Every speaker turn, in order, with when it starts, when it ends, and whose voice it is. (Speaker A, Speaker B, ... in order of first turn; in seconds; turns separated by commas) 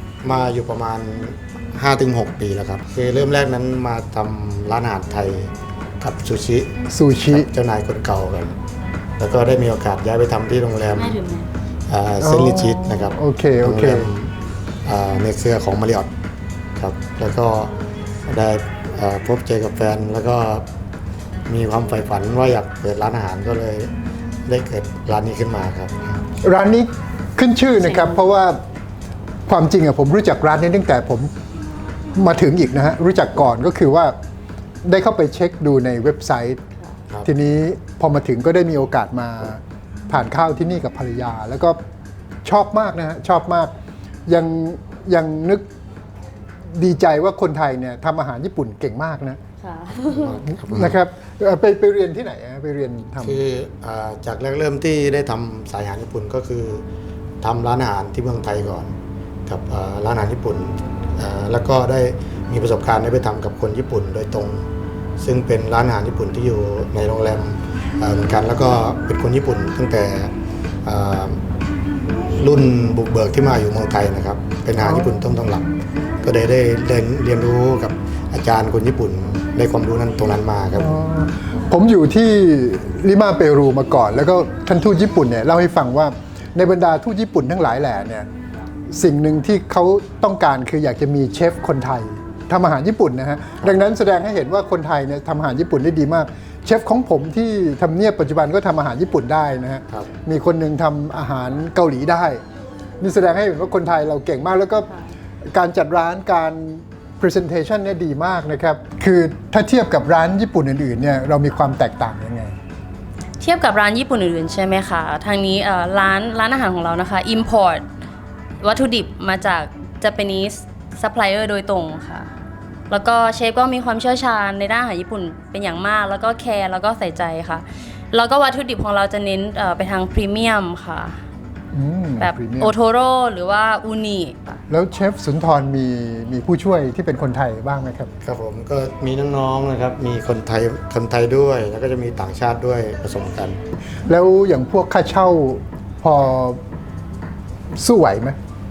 Speaker A: 0.2-8.6, Speaker B: 6.9-7.5, Speaker A: 9.2-11.2, Speaker C: 11.0-11.5, Speaker A: 11.9-14.3, Speaker B: 12.2-14.1, Speaker A: 14.8-16.1, Speaker A: 16.8-17.7, Speaker A: 18.3-20.7, Speaker A: 21.5-23.9, Speaker A: 24.5-26.2, Speaker B: 26.4-28.6, Speaker B: 29.5-31.3, Speaker B: 32.1-34.2, Speaker B: 34.8-36.6, Speaker B: 37.2-41.8, Speaker B: 42.4-43.7, Speaker B: 44.3-45.6, Speaker B: 46.7-49.4, Speaker C: 49.6-50.4, Speaker A: 50.1-51.0, Speaker B: 50.6-53.4, Speaker A: 53.2-56.8, Speaker A: 57.4-59.0, Speaker A: 59.5-64.7, Speaker A: 65.2-70.3, Speaker A: 70.8-71.4, Speaker A: 72.4-75.6, Speaker B: 74.8-75.2, Speaker A: 76.2-80.9, Speaker B: 80.8-88.3, Speaker B: 88.9-102.4, Speaker B: 103.0-104.9, Speaker B: 105.5-112.6, Speaker C: 113.4-117.8, Speaker C: 118.6-122.3, Speaker C: 122.9-131.2, Speaker B: 131.7-132.7, Speaker C: 132.2-134.6, Speaker B: 134.7-138.1, Speaker A: 138.2-143.6, Speaker B: 144.1-146.6, Speaker B: 147.7-148.4